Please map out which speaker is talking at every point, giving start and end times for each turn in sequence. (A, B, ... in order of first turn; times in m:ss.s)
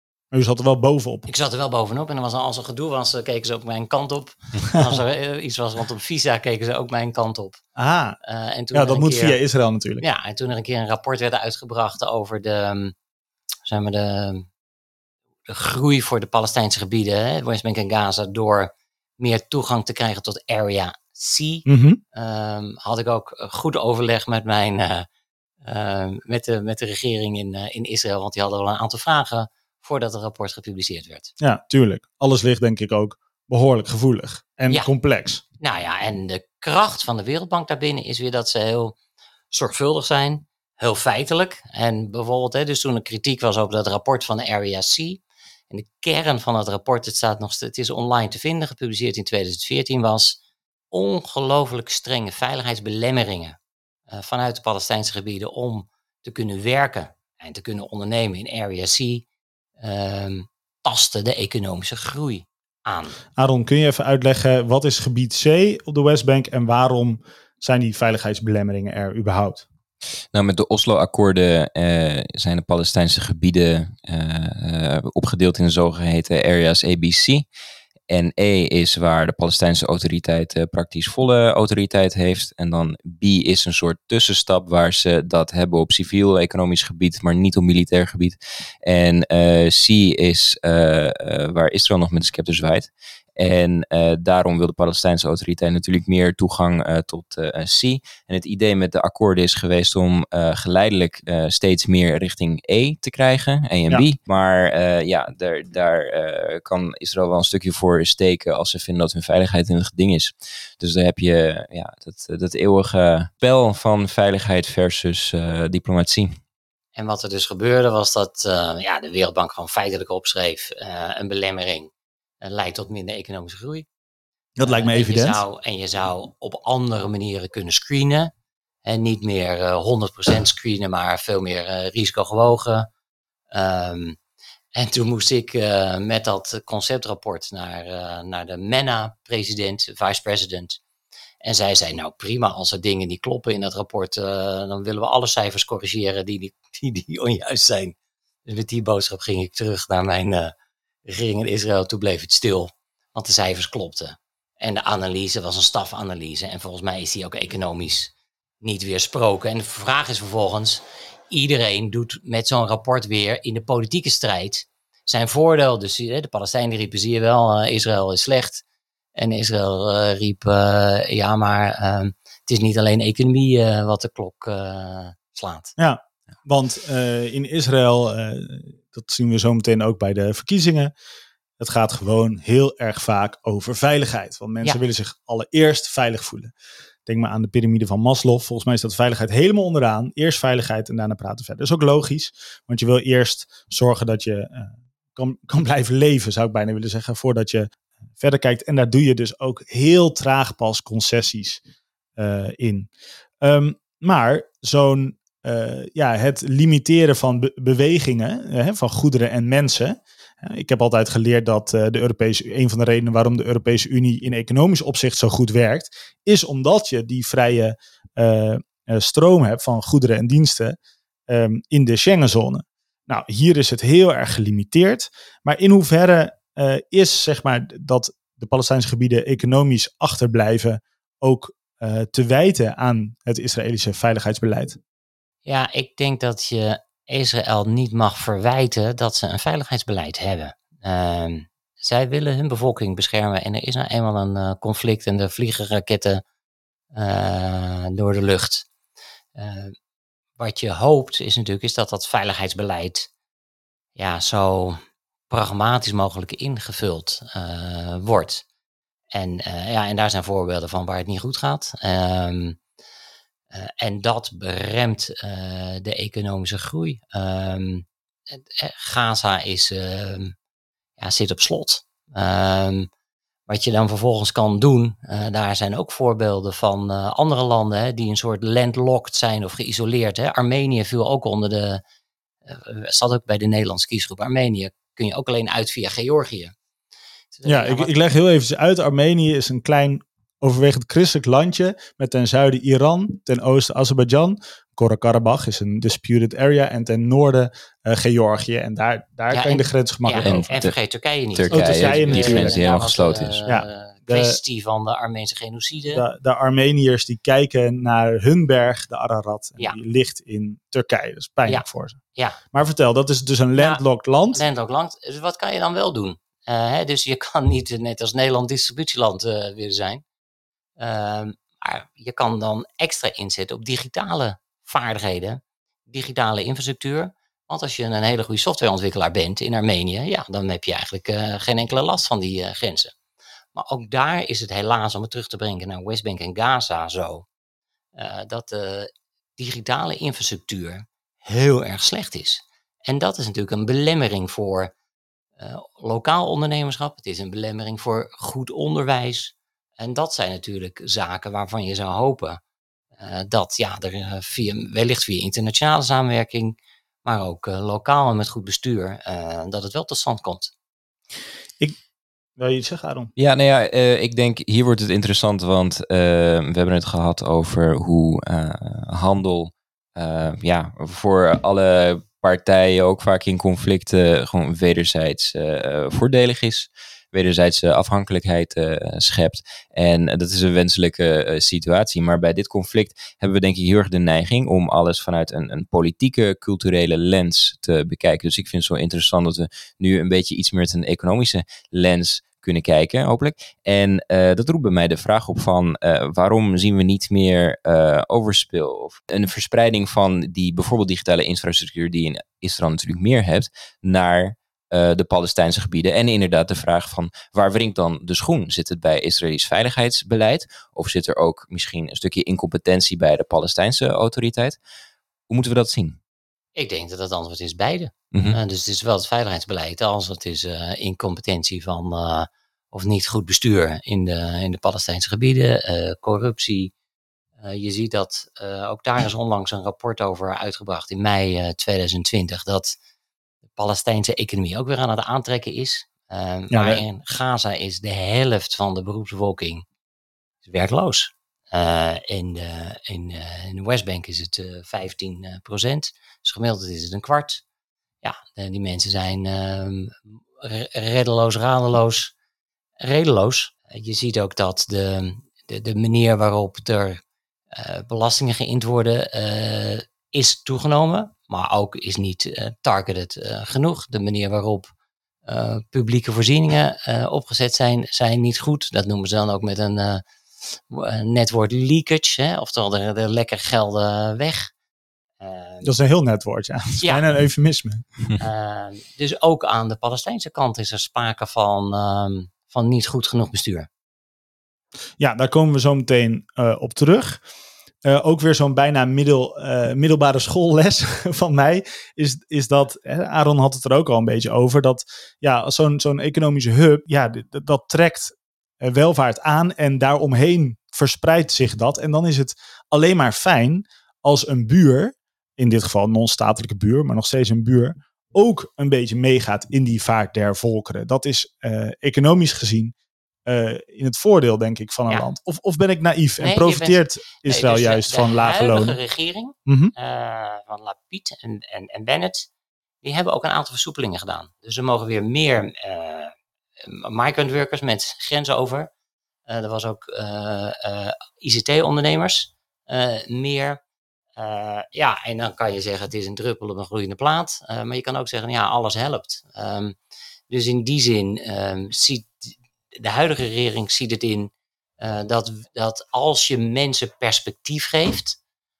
0:00.3-0:01.3 A
0:01.3-0:07.6 B
0:07.8-0:08.2 A
0:08.2-0:09.4 B
0:08.7-0:10.0 A
0:10.0-0:12.9 B
0:13.6-0:14.5 B
0:15.5-0:25.1 B
0:21.6-0:22.0 A
0:25.6-0:31.3 B
0:31.4-0:35.4 A
0:35.6-0:39.0 B
0:39.5-0:50.4 B
0:50.9-0:53.6 B
0:54.1-0:59.2 B
0:59.8-1:03.2 B
1:03.4-1:09.6 A
1:10.3-1:17.5 C
1:18.1-1:56.4 C
1:57.0-2:03.9 B
2:04.6-2:05.4 A
2:04.6-2:08.3 B
2:08.8-2:12.9 B
2:13.5-2:14.2 B
2:14.8-2:20.8 B
2:21.4-2:28.0 B
2:28.5-2:30.5 B
2:31.0-2:48.6 B
2:49.2-2:55.7 B
2:55.8-3:00.9 A
3:01.6-3:06.5 A
3:07.1-3:21.6 A
3:22.2-3:22.9 A
3:23.4-3:40.8 A
3:41.3-3:54.8 A
3:55.5-4:06.2 B
4:06.9-4:08.6 B
4:09.4-4:09.8 B
4:10.4-4:13.1 B
4:14.0-4:18.4 B
4:19.1-4:22.6 B
4:23.5-4:30.3 B
4:31.0-4:32.9 B
4:33.5-4:41.8 B
4:42.5-4:46.5 B
4:47.4-4:48.0 B
4:47.5-5:00.5 A
4:59.3-5:06.0 B
5:00.2-5:00.8 C
5:01.4-5:03.4 C
5:01.5-5:02.6 A
5:03.5-5:04.4 A
5:05.9-5:12.0 A
5:11.5-5:12.4 B
5:12.5-5:14.4 A
5:13.6-5:13.8 B
5:14.3-5:20.0 B
5:20.8-5:32.9 B
5:33.6-5:37.3 B
5:38.0-5:44.7 B
5:45.4-5:52.4 B
5:53.0-6:00.5 B
6:02.4-6:03.1 A
6:03.2-6:54.6 C
6:55.3-6:56.0 C
6:56.6-7:06.7 B
6:58.1-6:58.4 C
7:07.4-7:12.8 B
7:13.6-7:19.6 B
7:16.5-7:16.8 A
7:20.4-7:27.4 B
7:28.0-7:32.1 B
7:32.8-7:37.0 B
7:37.5-7:44.7 B
7:45.3-7:50.0 B
7:50.7-7:54.5 B
7:55.2-7:55.7 B
7:55.6-7:57.8 A
7:58.2-8:03.7 B
8:05.0-8:07.2 A
8:07.8-8:32.7 A
8:33.3-8:38.8 A
8:36.2-8:42.3 B
8:39.5-8:39.7 A
8:42.8-8:48.7 B
8:49.3-8:53.6 B
8:54.2-8:59.8 B
9:00.3-9:08.2 B